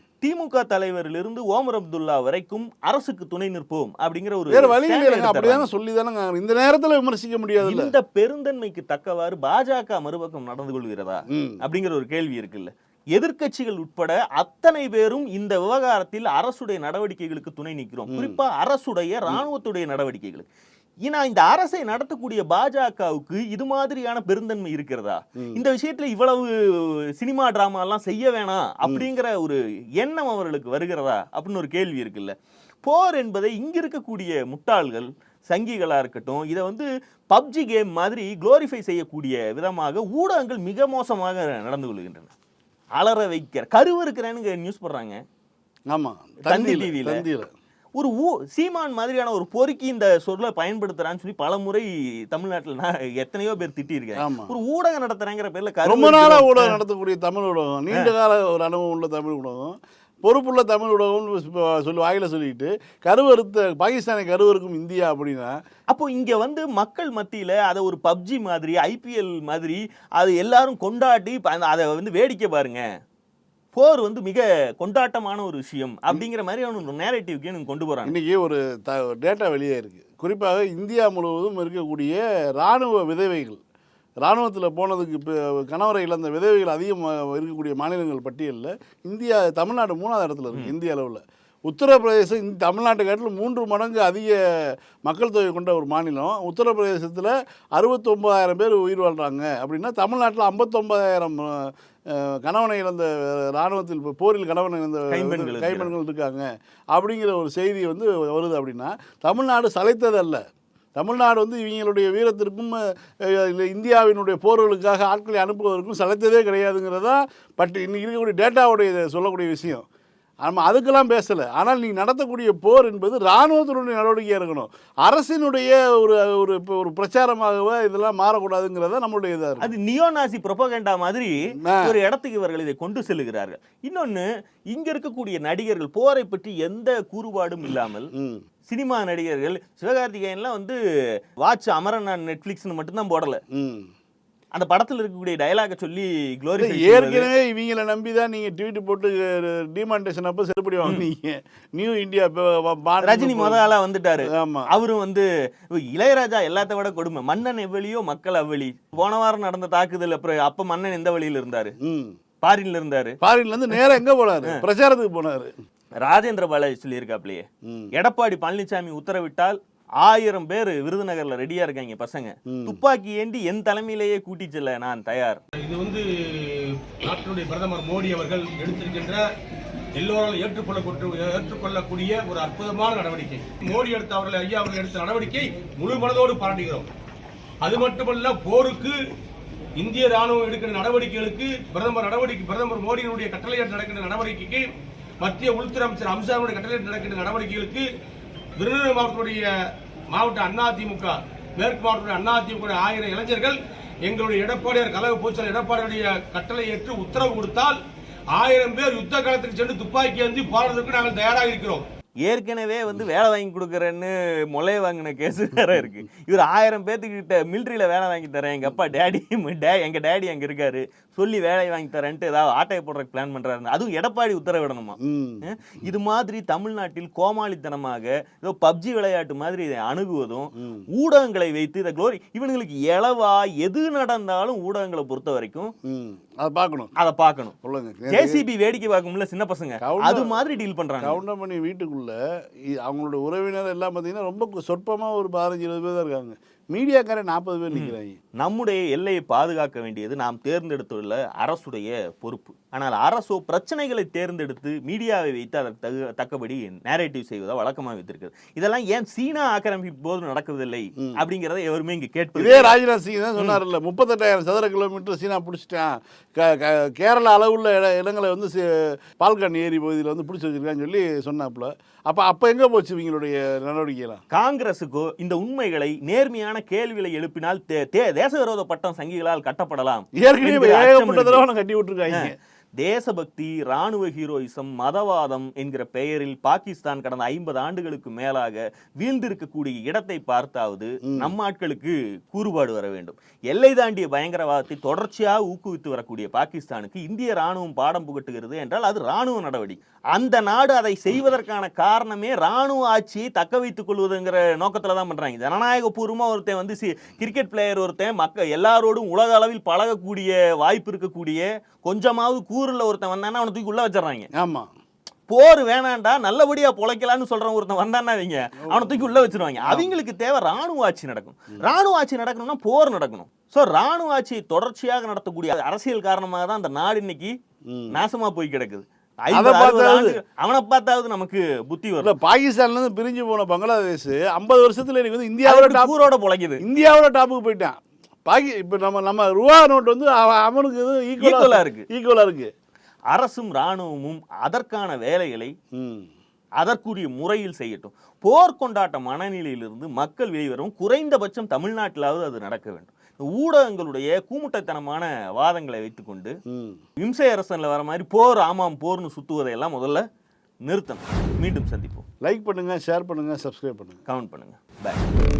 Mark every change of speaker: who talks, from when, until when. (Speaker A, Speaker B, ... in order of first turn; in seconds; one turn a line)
Speaker A: 0.2-5.7
Speaker B: 4.5-7.9
Speaker A: 7.6-20.5
Speaker B: 18.1-18.4
Speaker A: 21.1-42.3
Speaker A: 43.0-45.2
Speaker B: 45.9-47.5
Speaker A: 46.4-47.2
Speaker A: 48.0-56.8
Speaker B: 54.2-54.5
Speaker B: 55.8-65.5
Speaker A: 65.9-72.8
Speaker A: 73.7-78.2
Speaker B: 78.0-83.6
Speaker B: 84.2-110.4
Speaker A: 105.1-105.9
Speaker B: 111.0-119.8
Speaker B: 120.4-129.7
Speaker A: 129.6-138.1
Speaker B: 131.6-132.0
Speaker B: 138.2-138.4
Speaker A: 138.7-140.8
Speaker A: 141.4-143.4
Speaker B: 143.5-143.9
Speaker A: 144.5-147.3
Speaker B: 146.6-153.6
Speaker A: 153.0-161.7
Speaker B: 154.3-154.7
Speaker B: 161.8-162.1
Speaker A: 162.4-163.2
Speaker B: 163.2-165.5
Speaker A: 166.0-175.4
Speaker B: 172.5-172.8
Speaker C: 175.6-179.2
Speaker C: 179.9-186.9
Speaker C: 187.6-188.9
Speaker C: 189.8-194.6
Speaker C: 195.2-197.8
Speaker C: 198.6-199.5
Speaker C: 200.1-207.8
Speaker C: 208.3-211.8
Speaker A: 212.2-235.7
Speaker B: 225.0-225.4
Speaker B: 230.6-230.8
Speaker B: 235.8-236.9
Speaker A: 237.0-237.5
Speaker B: 237.6-238.4
Speaker A: 238.1-241.2
Speaker B: 239.8-240.4
Speaker B: 241.0-242.2
Speaker B: 242.8-248.2
Speaker A: 247.7-262.8
Speaker B: 262.4-274.2
Speaker A: 274.3-281.4
Speaker B: 280.2-282.3
Speaker A: 282.1-314.3
Speaker B: 291.1-291.3
Speaker B: 314.3-314.7
Speaker A: 315.3-327.3
Speaker B: 318.6-320.0
Speaker B: 327.7-328.0
Speaker A: 327.9-332.1
Speaker B: 329.3-330.2
Speaker B: 332.0-336.0
Speaker A: 335.4-336.6
Speaker B: 336.6-342.5
Speaker A: 341.2-341.9
Speaker A: 343.1-345.5
Speaker B: 345.8-346.1
Speaker A: 346.6-356.3
Speaker B: 356.5-356.8
Speaker A: 357.0-360.0
Speaker A: 360.6-362.1
Speaker B: 362.2-364.0
Speaker A: 364.1-365.0